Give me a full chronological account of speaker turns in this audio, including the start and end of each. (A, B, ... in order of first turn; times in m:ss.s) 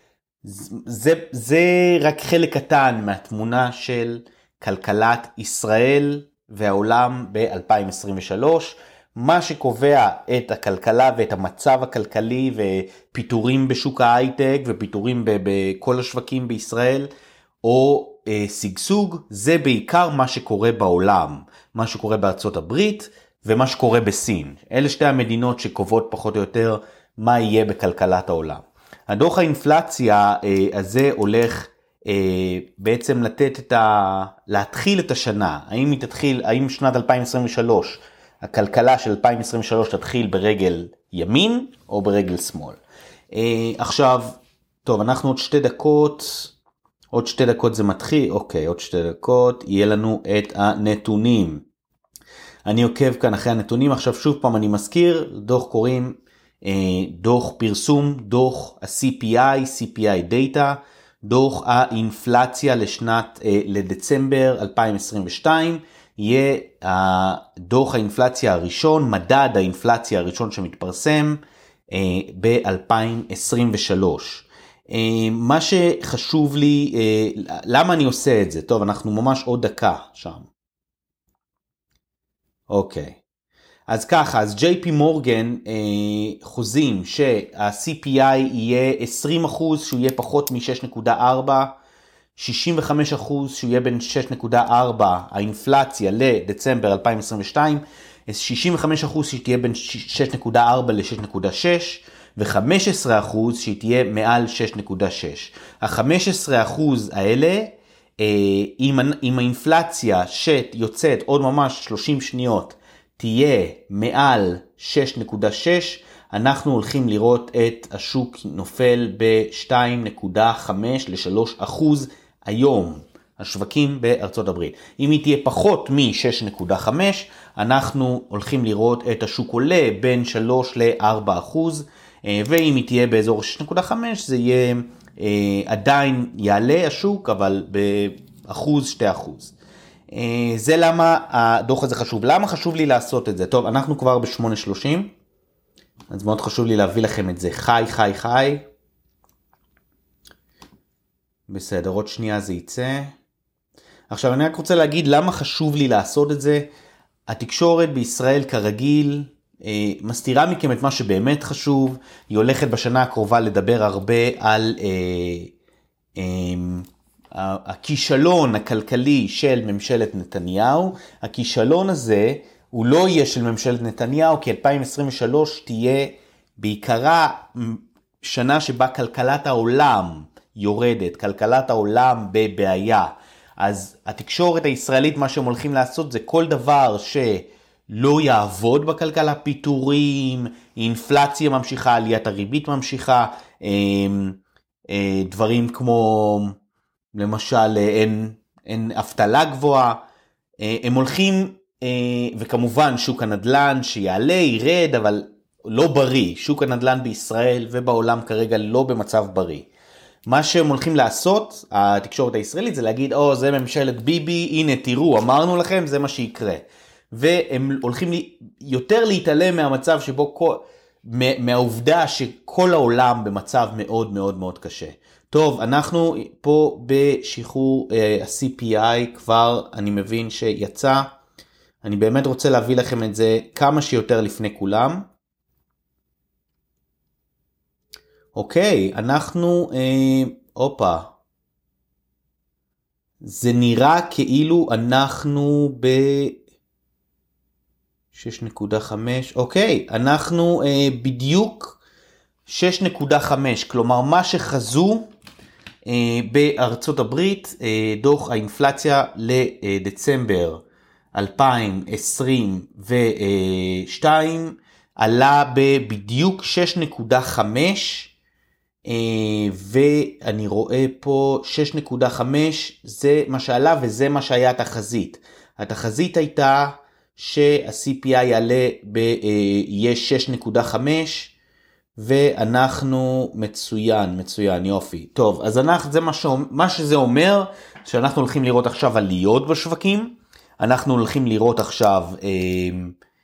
0:00.4-0:17.1 A
0:17.6-0:42.8 A
0:43.3-0:46.5 A
0:47.1-0:51.6 A
0:52.6-1:20.5 A
1:22.7-1:23.2 A
1:23.9-1:31.7 A
1:32.4-2:19.5 A
2:20.1-2:25.1 A
2:26.1-2:28.6 A
2:31.5-2:33.1 A
2:34.1-2:36.6 A
2:37.3-2:45.5 A
2:46.2-3:16.5 A
3:17.1-3:20.0 A
3:20.6-3:29.7 A
3:30.2-3:51.1 A
3:51.8-3:55.1 A
3:58.3-4:01.1 A
4:03.2-4:06.4 A
4:08.1-4:11.8 A
4:12.4-4:15.1 A
4:15.8-4:28.1 A
4:28.8-4:41.3 A
4:42.0-4:53.0 A